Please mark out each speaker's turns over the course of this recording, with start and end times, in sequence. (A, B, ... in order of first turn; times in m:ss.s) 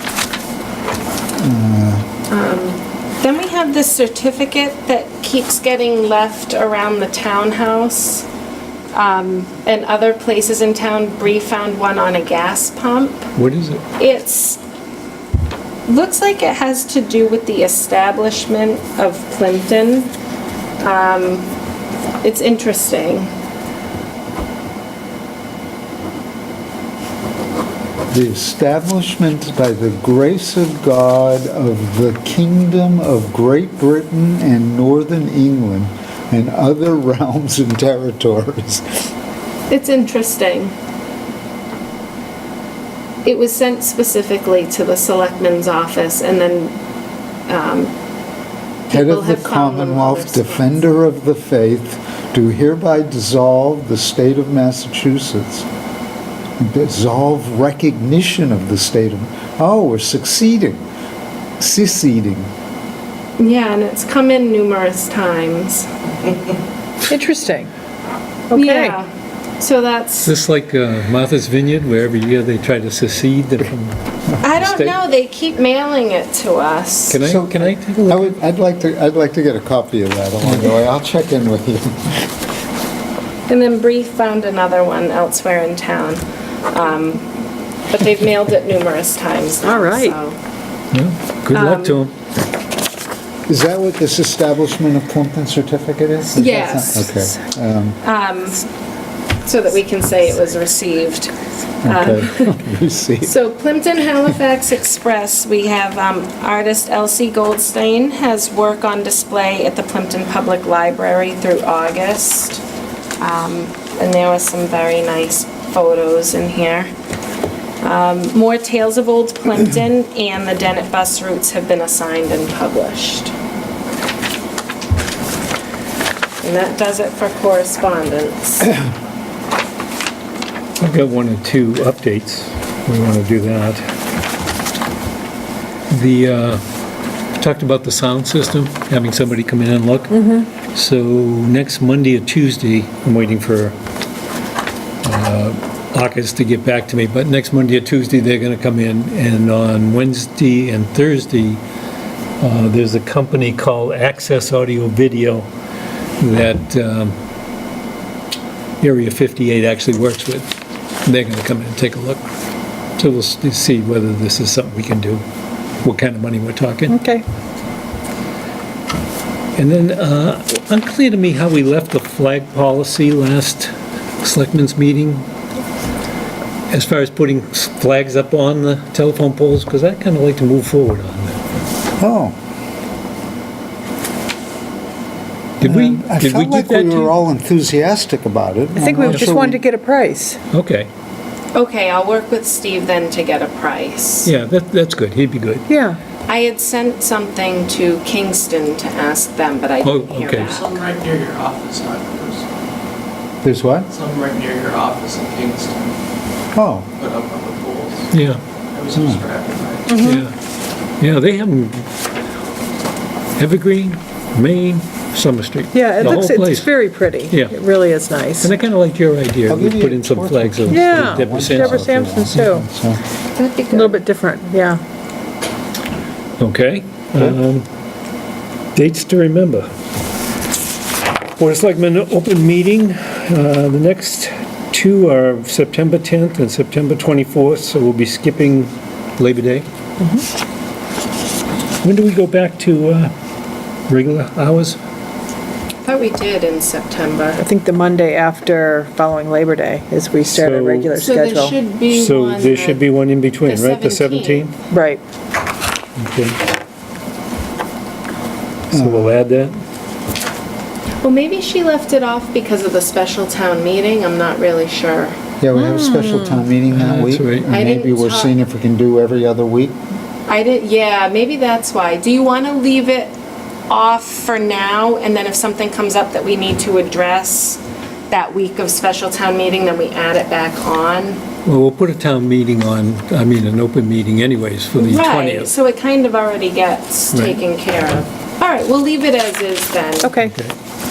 0:01.4-0:02.0 A
0:02.3-0:08.3 B
0:08.9-0:13.3 B
0:13.4-0:13.8 C
0:14.0-0:14.6 B
0:15.9-0:20.1 B
0:20.8-0:21.5 B
0:22.2-0:23.3 B
0:28.1-0:38.9 A
0:39.7-0:40.7 B
0:43.2-0:46.8 B
0:47.5-0:47.9 B
0:48.9-0:50.8 B
0:48.9-0:55.6 A
0:56.6-1:00.8 A
1:01.6-1:02.5 A
1:03.4-1:05.9 B
1:07.1-1:07.7 D
1:08.5-1:09.0 D
1:08.5-1:09.1 B
1:09.6-1:10.3 B
1:10.2-1:15.0 C
1:14.4-1:17.2 B
1:17.1-1:18.4 C
1:17.2-1:22.3 A
1:20.4-1:20.7 C
1:23.5-1:27.3 B
1:27.9-1:30.4 B
1:29.6-1:30.2 D
1:30.9-1:32.1 C
1:31.5-1:32.0 B
1:33.5-1:38.0 A
1:36.4-1:37.3 B
1:38.0-1:38.7 B
1:39.5-1:42.6 B
1:41.8-1:43.4 A
1:43.2-1:52.6 B
1:53.2-1:56.9 B
1:57.8-2:03.3 B
2:06.4-2:08.7 B
2:10.8-2:13.8 C
2:15.9-2:16.6 C
2:17.4-2:23.8 C
2:25.0-2:31.6 C
2:32.4-2:35.5 C
2:36.2-2:37.2 C
2:38.8-2:40.5 C
2:41.0-2:42.2 C
2:43.0-2:45.2 C
2:45.8-2:47.0 C
2:46.9-2:47.2 D
2:49.6-2:55.2 C
2:56.7-3:01.4 C
3:02.0-3:02.4 A
3:05.6-3:07.1 C
3:05.6-3:09.6 A
3:08.8-3:10.4 D
3:09.0-3:09.3 C
3:10.5-3:10.9 C
3:11.5-3:14.3 B
3:14.2-3:15.7 C
3:15.7-3:16.0 D
3:16.3-3:20.7 B
3:19.8-3:20.6 C
3:20.4-3:22.4 E
3:23.4-3:23.9 A
3:23.9-3:25.8 E
3:26.6-3:26.9 A
3:27.0-3:28.1 E
3:28.1-3:28.4 C
3:28.7-3:30.0 E
3:29.9-3:30.3 D
3:30.0-3:30.4 C
3:31.0-3:31.9 C
3:33.4-3:37.6 C
3:35.7-3:38.5 D
3:38.4-3:42.0 C
3:39.5-3:43.0 A
3:40.7-3:42.6 D
3:43.4-3:44.0 B
3:43.7-3:44.8 D
3:46.4-3:47.7 C
3:48.8-3:49.7 C
3:51.4-3:59.7 C
4:01.8-4:03.1 C
4:03.9-4:04.8 C
4:05.8-4:07.4 B
4:07.4-4:11.6 D
4:10.2-4:11.0 C
4:11.0-4:12.8 B
4:11.9-4:14.5 C
4:13.4-4:14.5 B
4:14.7-4:15.0 D
4:16.0-4:16.4 C
4:18.7-4:19.2 A
4:18.7-4:19.6 C
4:21.0-4:25.2 B
4:25.4-4:29.8 A
4:25.6-4:26.5 D
4:26.7-4:27.5 C
4:27.5-4:28.3 B
4:30.3-4:33.1 B
4:33.7-4:41.2 B
4:41.4-4:45.5 C
4:44.8-4:50.2 B
4:47.1-4:47.4 C
4:50.0-4:50.4 D
4:50.2-4:50.5 C